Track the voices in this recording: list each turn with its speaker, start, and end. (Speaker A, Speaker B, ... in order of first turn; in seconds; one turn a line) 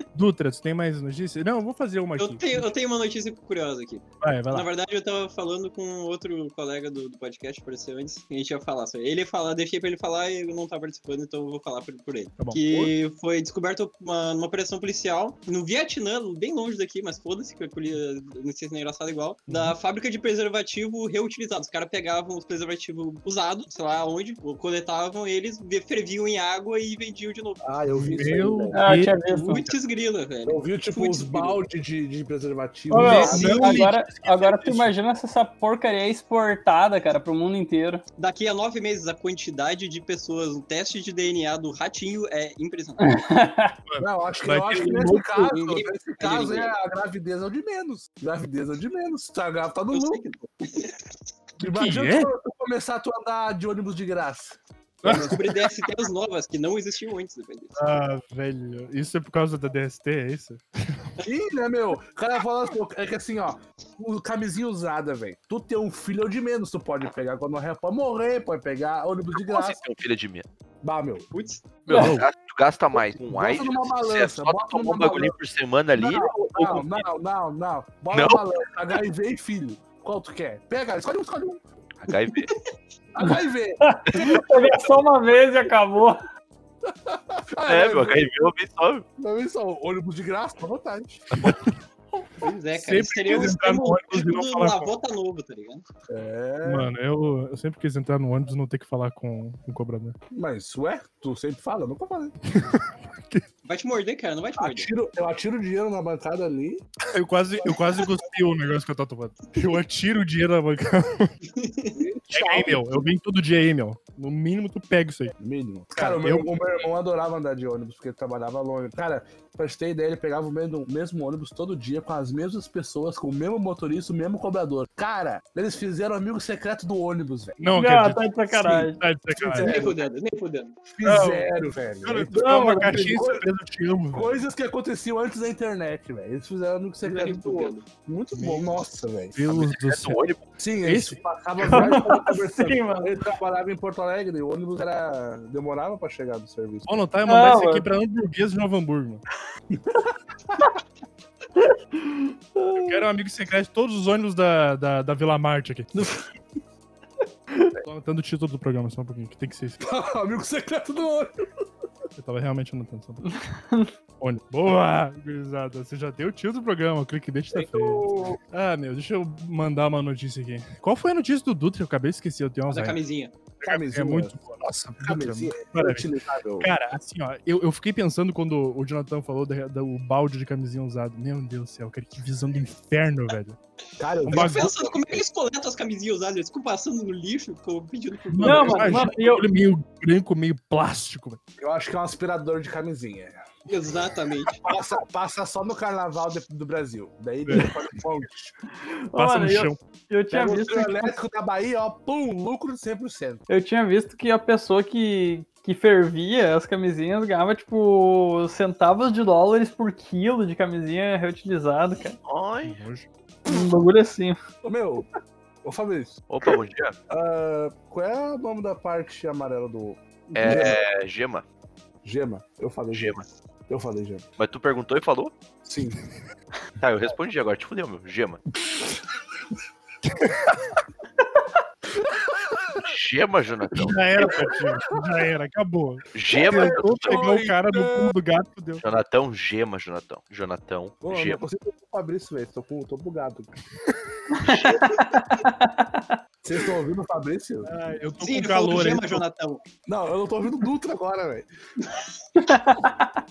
Speaker A: 0.1-2.7
Speaker B: 2.2-27.7
Speaker A: 4.2-4.7
Speaker A: 12.4-12.9
Speaker A: 19.5-19.8
Speaker C: 27.6-28.9
Speaker A: 27.9-29.7
Speaker D: 28.7-29.6
Speaker B: 29.4-31.6
Speaker C: 30.4-33.8
Speaker A: 32.9-34.9
Speaker D: 32.9-38.0
Speaker B: 33.4-33.8
Speaker B: 38.2-43.2
Speaker D: 43.0-43.8
Speaker A: 43.9-45.5
Speaker C: 44.0-50.2
Speaker B: 45.4-46.7
Speaker B: 49.9-51.0
Speaker C: 51.6-55.5
Speaker A: 51.6-52.3
Speaker A: 55.0-55.4
Speaker B: 55.1-57.8
Speaker A: 57.8-61.1
Speaker C: 61.2-69.8
Speaker E: 69.3-70.5
Speaker C: 70.8-71.3
Speaker B: 71.3-71.6
Speaker E: 71.8-77.0
Speaker D: 71.9-72.2
Speaker A: 71.9-72.2
Speaker C: 73.2-75.3
Speaker C: 75.9-81.6
Speaker E: 78.1-78.4
Speaker E: 82.0-82.5
Speaker C: 83.1-84.8
Speaker D: 83.8-86.2
Speaker C: 86.8-88.3
Speaker E: 87.6-89.0
Speaker C: 89.2-91.5
Speaker A: 91.4-91.7
Speaker B: 92.4-95.8
Speaker A: 92.7-94.9
Speaker C: 96.1-96.9
Speaker A: 96.6-100.2
Speaker C: 100.3-102.3
Speaker A: 102.5-103.5
Speaker B: 103.6-104.9
Speaker C: 104.6-106.9
Speaker A: 107.1-111.3
Speaker B: 111.4-112.0
Speaker C: 112.0-112.8
Speaker A: 112.3-115.3
Speaker C: 115.4-127.6
Speaker A: 115.9-116.5
Speaker A: 127.6-129.8
Speaker D: 127.7-129.0
Speaker C: 129.3-130.0
Speaker B: 129.5-130.8
Speaker C: 130.8-133.5
Speaker A: 131.0-134.4
Speaker D: 132.3-133.2
Speaker C: 134.1-139.4
Speaker B: 137.0-137.8
Speaker A: 138.3-138.7
Speaker A: 139.3-140.3
Speaker E: 139.5-140.4
Speaker C: 140.6-147.0
Speaker A: 140.8-141.9
Speaker D: 141.7-143.2
Speaker A: 146.9-149.2
Speaker D: 147.2-147.9
Speaker C: 149.7-150.0
Speaker D: 152.0-153.1
Speaker A: 152.7-156.1
Speaker C: 155.9-156.2
Speaker A: 157.8-159.8
Speaker C: 159.8-161.5
Speaker A: 162.2-163.2
Speaker D: 163.2-163.9
Speaker A: 164.2-173.0
Speaker C: 167.5-168.4
Speaker B: 172.7-173.3
Speaker A: 173.6-183.6
Speaker C: 173.6-174.4
Speaker C: 175.0-176.7
Speaker C: 184.0-185.2
Speaker A: 184.2-184.7
Speaker B: 184.3-189.1
Speaker A: 188.3-191.4
Speaker D: 188.4-189.5
Speaker C: 191.6-193.4
Speaker B: 193.7-194.6
Speaker C: 194.6-198.5
Speaker A: 197.4-197.7
Speaker D: 198.8-201.2
Speaker A: 199.1-199.8
Speaker C: 200.3-203.4
Speaker D: 203.5-212.2
Speaker E: 212.2-212.8
Speaker A: 212.6-213.1
Speaker D: 213.4-214.4
Speaker C: 214.6-215.1
Speaker C: 215.6-216.2
Speaker E: 216.3-216.9
Speaker C: 217.1-220.8
Speaker E: 220.3-221.4
Speaker C: 222.0-224.2
Speaker E: 222.9-223.2
Speaker E: 224.4-225.3
Speaker C: 225.6-226.0
Speaker E: 226.8-228.4
Speaker C: 232.0-232.8
Speaker E: 232.8-234.2
Speaker A: 233.7-238.8
Speaker E: 236.1-237.1
Speaker C: 236.3-238.1
Speaker E: 238.8-241.4
Speaker C: 241.0-243.5
Speaker D: 244.3-246.2
Speaker E: 244.4-244.9
Speaker C: 246.4-247.7
Speaker A: 247.6-249.2
Speaker B: 248.2-249.6
Speaker C: 249.8-251.5
Speaker D: 252.3-253.2